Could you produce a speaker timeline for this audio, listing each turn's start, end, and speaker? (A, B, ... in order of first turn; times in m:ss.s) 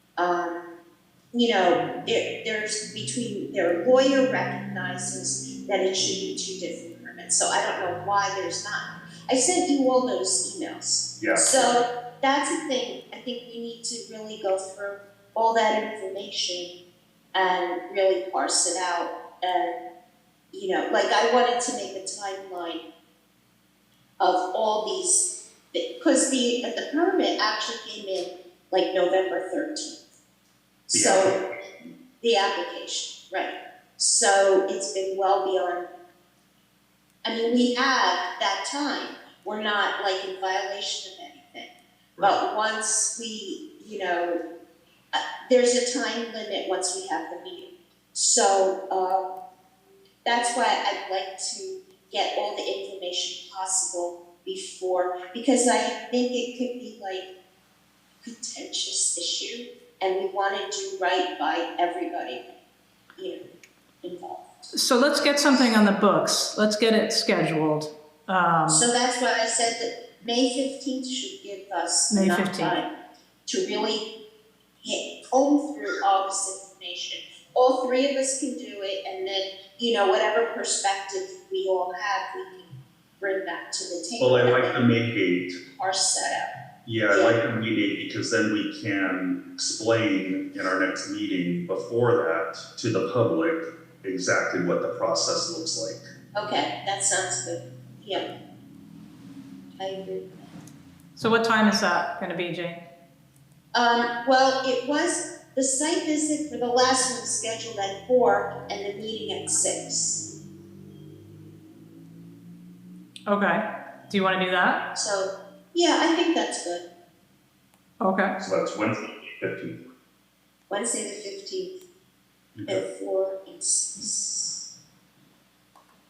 0:00.2-0:00.8 A
0:01.3-0:16.7 A
0:11.2-0:11.7 B
0:17.3-0:19.8 A
0:20.5-0:22.8 A
0:24.2-0:30.0 A
0:30.9-0:31.4 A
0:30.9-0:31.4 B
0:32.2-0:35.9 A
0:37.2-0:44.4 A
0:45.1-0:49.3 A
0:50.2-0:57.3 A
0:58.2-1:02.5 A
1:03.2-1:03.4 A
1:04.0-1:04.5 A
1:04.7-1:08.9 C
1:08.7-1:12.9 A
1:12.1-1:12.8 C
1:13.4-1:14.1 A
1:14.8-1:24.8 A
1:24.2-1:25.6 B
1:25.7-1:26.5 A
1:26.8-1:36.0 B
1:27.1-1:27.4 A
1:36.3-1:38.3 A
1:39.8-1:40.5 A
1:41.2-1:42.8 C
1:43.7-1:50.3 A
1:53.3-1:54.9 C
1:54.9-1:56.8 A
1:58.0-1:58.4 C
1:58.4-1:59.8 B
2:00.7-2:01.8 A
2:02.6-2:02.8 B
2:02.6-2:04.7 A